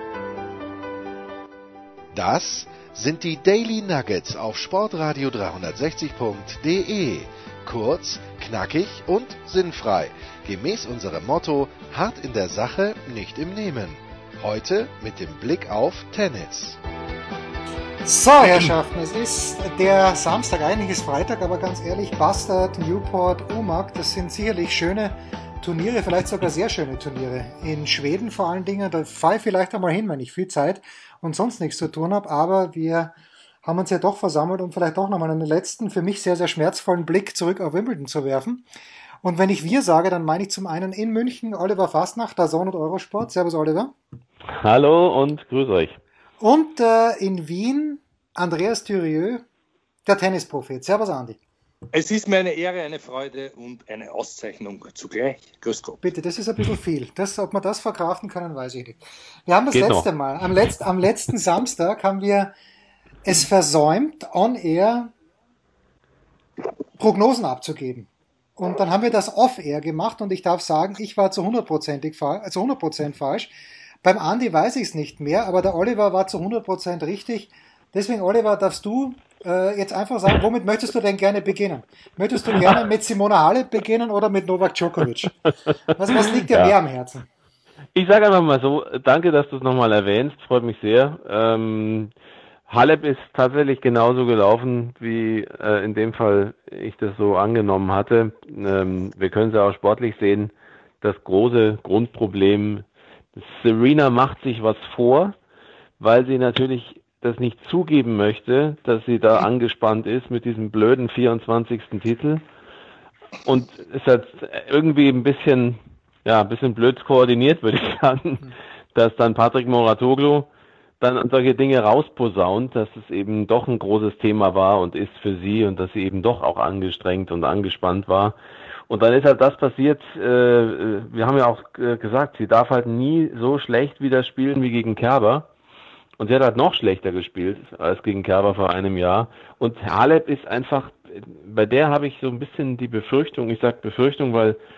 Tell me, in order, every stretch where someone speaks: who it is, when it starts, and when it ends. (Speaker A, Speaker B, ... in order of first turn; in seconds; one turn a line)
Speaker A: 2.1-16.8
Speaker B: 18.1-38.6
Speaker B: 39.2-43.9
Speaker C: 44.5-46.0
Speaker B: 46.4-49.5
Speaker B: 50.0-51.4
Speaker D: 51.9-56.0
Speaker B: 56.0-62.5
Speaker C: 59.7-60.1
Speaker B: 63.2-65.1
Speaker B: 67.0-73.5
Speaker B: 74.0-87.3
Speaker C: 86.1-86.7
Speaker C: 88.0-92.1
Speaker C: 92.7-105.4
Speaker C: 106.0-112.4
Speaker C: 113.5-120.5
Speaker C: 121.0-128.4
Speaker C: 128.9-135.5
Speaker C: 136.2-144.6